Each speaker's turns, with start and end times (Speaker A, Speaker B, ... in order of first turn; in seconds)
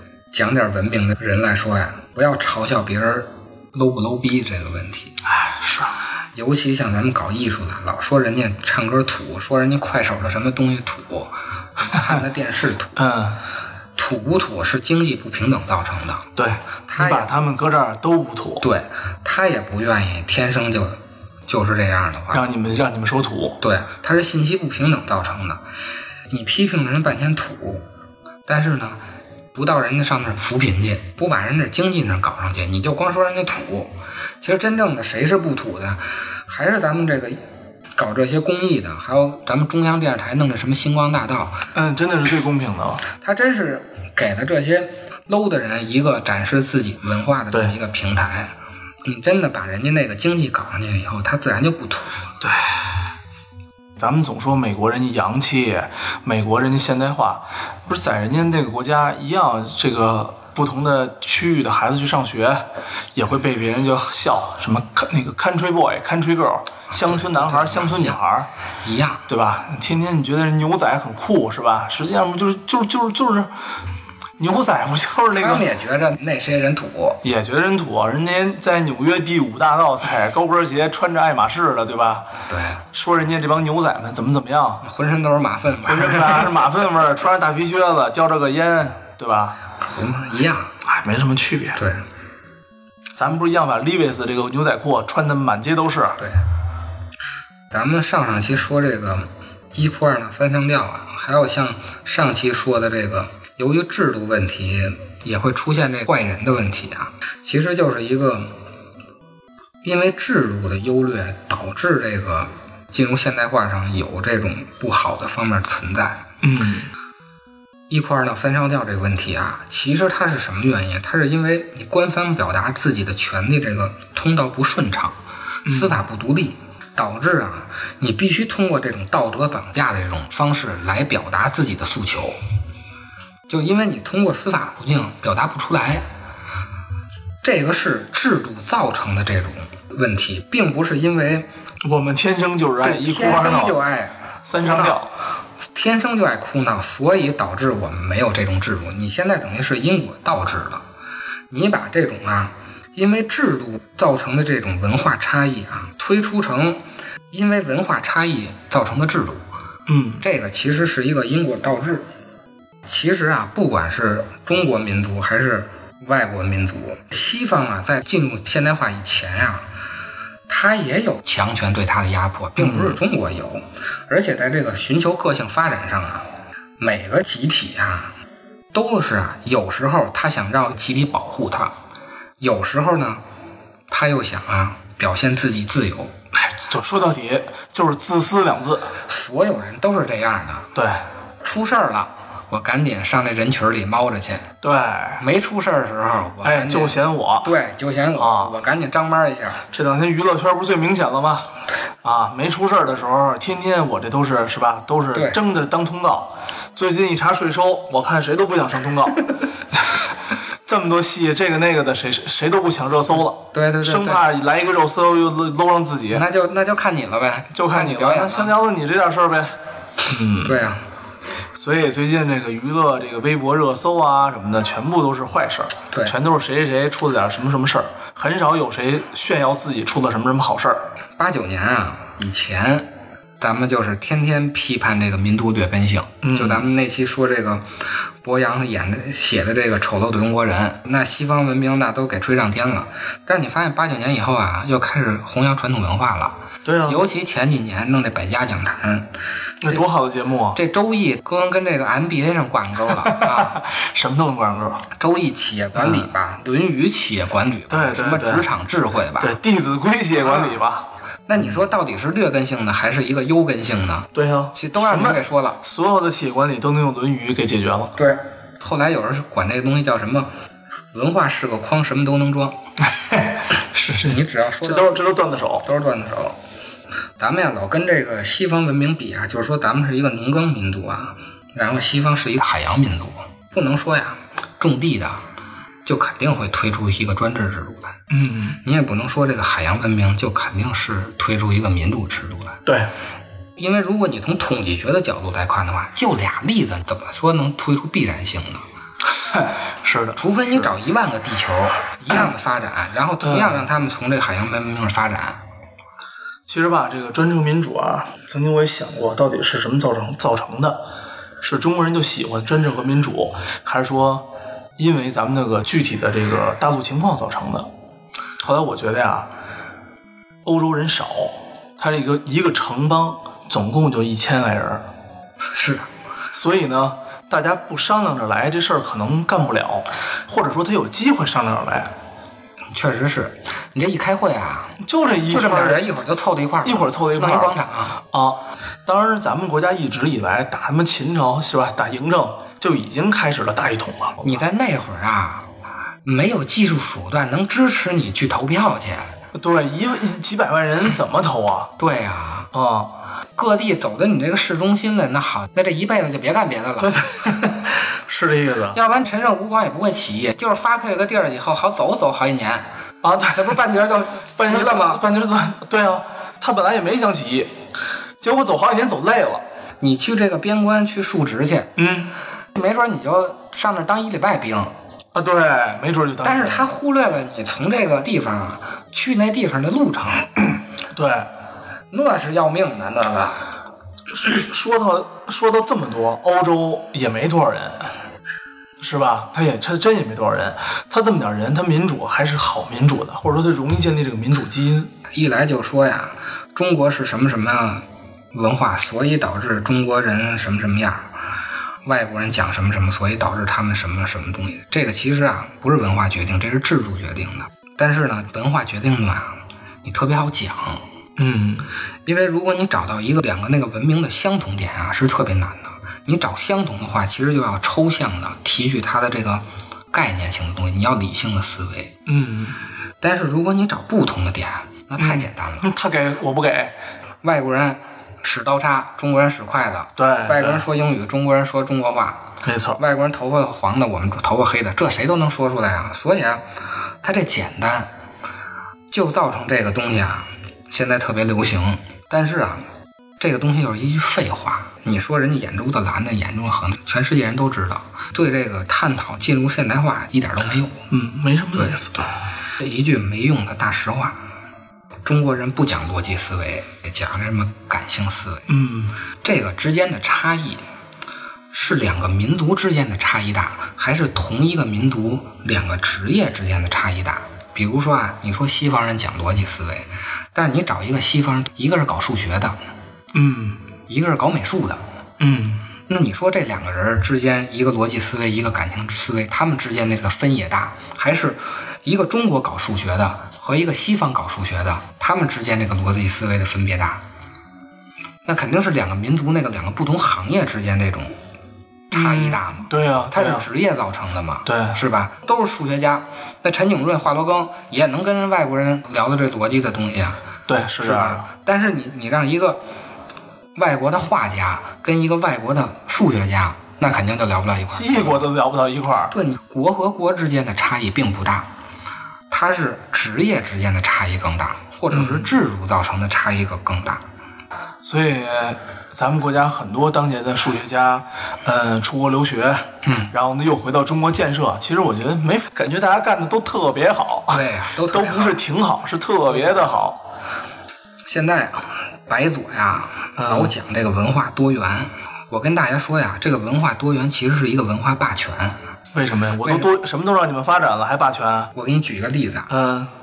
Speaker A: 0.3-5.2, 6.3-13.0, 14.0-16.3, 16.9-17.3, 18.6-22.4, 23.6-25.6, 26.3-27.9, 28.5-29.0, 29.5-37.4, 38.0-41.6, 43.2-52.3, 66.9-68.2, 68.8-69.3, 75.3-77.2, 82.5-82.8, 84.8-86.5, 89.9-90.8, 91.8-92.0, 96.2-96.4, 97.7-108.6, 109.8-116.2, 117.9-132.4, 133.5-136.0, 137.4-141.5, 142.8-145.0, 145.6-150.8, 151.5-159.4, 160.2-162.1, 162.8-169.7, 170.5-176.3, 176.8-178.1, 178.7-181.7, 182.4-183.2, 183.9-186.1, 189.1-190.7, 191.4-194.5, 195.2-199.6, 205.1-205.4, 213.5-214.2, 216.1-218.6, 220.4-220.8, 231.2-232.9, 233.4-237.7, 238.2-249.1, 250.5-253.6, 255.0-259.4, 260.2-260.6, 261.3-265.6, 268.0-270.3, 270.9-272.6, 274.0-275.1, 275.6-276.4, 277.2-285.2, 285.9-288.0, 288.6-292.6, 293.6-298.6, 300.2-305.4, 325.5-325.9, 332.7-334.8, 335.3-338.0, 344.2-345.5, 346.1-349.1, 351.8-352.5, 353.4-357.1, 358.7-362.7, 363.3-365.0, 369.8-371.7, 372.6-374.7, 376.2-380.3, 381.9-383.4, 395.1-401.1, 401.8-410.8, 412.1-421.9, 423.0-425.7, 427.2-432.2, 432.8-436.4, 437.0-437.9, 438.9-442.7, 443.2-450.8, 451.6-451.9, 452.6-454.2, 455.0-458.5, 459.2-460.6, 461.5-472.6, 473.9-474.8, 475.9-487.0, 488.2-491.1, 491.9-500.2, 500.8-502.6, 503.6-508.2, 509.1-511.5, 512.3-517.0, 522.8-523.1, 527.3-528.4, 531.1-538.6, 539.4-539.8, 541.5-542.5
Speaker B: 5.3-6.0, 11.9-12.2, 13.0-13.4, 16.4-18.6, 22.3-23.6, 41.8-43.0, 52.4-52.9, 54.0-68.5, 69.3-73.5, 74.4-75.7, 77.2-82.3, 82.9-84.8, 85.8-89.6, 90.8-91.8, 93.1-96.2, 116.4-116.9, 125.7-126.0, 141.8-143.8, 144.5-145.1, 159.9-160.2, 172.6-173.0, 186.3-188.9, 190.8-191.0, 194.6-195.2, 196.4-197.5, 198.2-198.6, 199.7-209.2, 209.7-210.1, 210.7-216.2, 217.5-219.5, 220.1-220.6, 221.6-230.8, 236.2-236.7, 246.7-247.0, 249.6-250.6, 253.0-254.8, 255.8-256.1, 257.7-258.5, 259.2-261.6, 264.1-268.0, 273.0-275.7, 288.1-288.6, 299.2-300.7, 303.2-303.7, 306.5-310.8, 311.4-314.3, 314.8-317.7, 318.4-319.3, 320.4-324.9, 326.3-331.9, 334.8-335.9, 336.6-344.4, 349.3-351.7, 352.5-353.0, 356.8-358.8, 363.0-363.6, 364.3-367.5, 368.2-369.4, 371.8-372.1, 375.1-376.7, 380.9-381.3, 384.1-387.9, 388.8-394.9, 411.2-411.7, 422.1-422.6, 425.0-426.8, 430.0-430.7, 432.4-432.8, 450.9-452.1, 458.5-458.9, 473.1-473.6, 475.2-475.6, 491.9-493.5, 494.5-494.8, 500.5-501.3, 507.7-509.1, 514.9-515.4, 517.8-530.0, 533.2-533.5, 538.9-541.5, 542.5-542.9